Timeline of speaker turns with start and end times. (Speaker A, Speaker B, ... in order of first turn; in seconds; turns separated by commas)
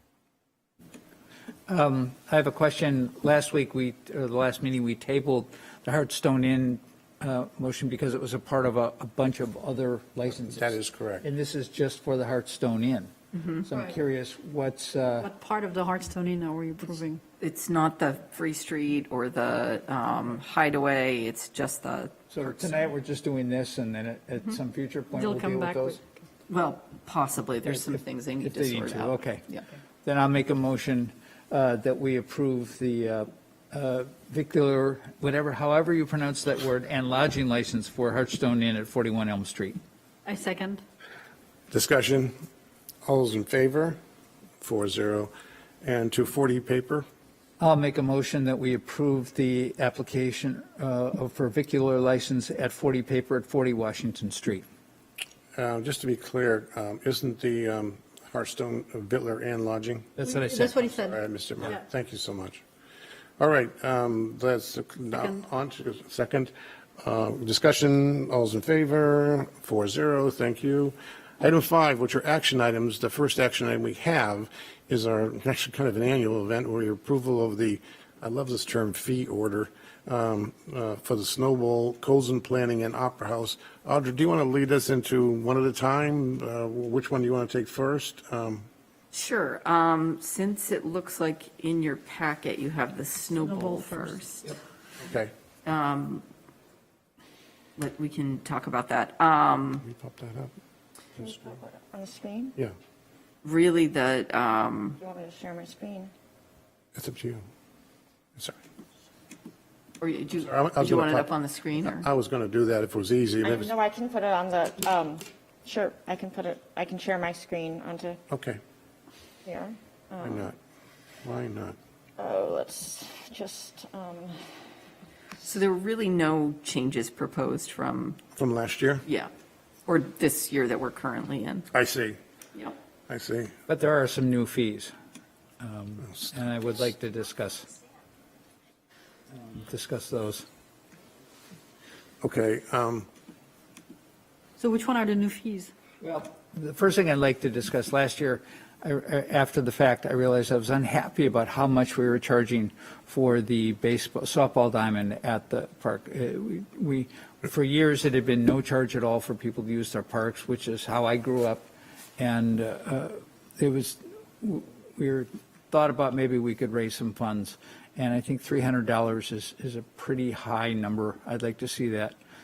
Speaker A: 1.7-15.3, Speaker B: 10.4-11.2, Speaker C: 13.3-13.6, Speaker D: 13.7-14.0, Speaker D: 15.2-17.2, Speaker C: 17.4-22.9, Speaker A: 22.3-26.0, Speaker D: 25.1-26.0, Speaker C: 26.5-29.6, Speaker A: 27.6-29.4, Speaker A: 30.0-39.8, Speaker D: 40.2-40.8, Speaker B: 41.7-42.3, Speaker B: 43.0-44.0, Speaker B: 44.6-47.0, Speaker A: 47.6-54.6, Speaker B: 55.5-60.2, Speaker A: 60.2-60.8, Speaker D: 60.2-61.2, Speaker B: 60.9-62.6, Speaker B: 63.4-88.7, Speaker C: 89.1-94.6, Speaker D: 93.3-94.2, Speaker B: 95.0-95.3, Speaker C: 95.6-96.2, Speaker C: 97.8-99.8, Speaker B: 99.8-100.5, Speaker E: 101.2-102.6, Speaker C: 103.4-105.0, Speaker E: 105.0-106.1, Speaker B: 106.9-107.4, Speaker C: 110.0-112.0, Speaker B: 110.4-111.3, Speaker B: 111.8-113.7, Speaker E: 113.4-118.2, Speaker B: 118.3-118.6, Speaker E: 119.4-120.5, Speaker B: 120.2-120.6, Speaker B: 121.2-121.8, Speaker E: 122.2-124.4, Speaker C: 125.4-128.2, Speaker B: 128.3-129.0, Speaker C: 129.0-129.3, Speaker C: 129.8-131.7, Speaker B: 131.7-132.2, Speaker B: 133.1-133.5, Speaker A: 133.7-134.9, Speaker A: 135.6-137.7, Speaker A: 139.4-140.4, Speaker B: 142.2-143.1, Speaker D: 144.6-145.7, Speaker A: 146.0-161.6, Speaker A: 162.2-172.2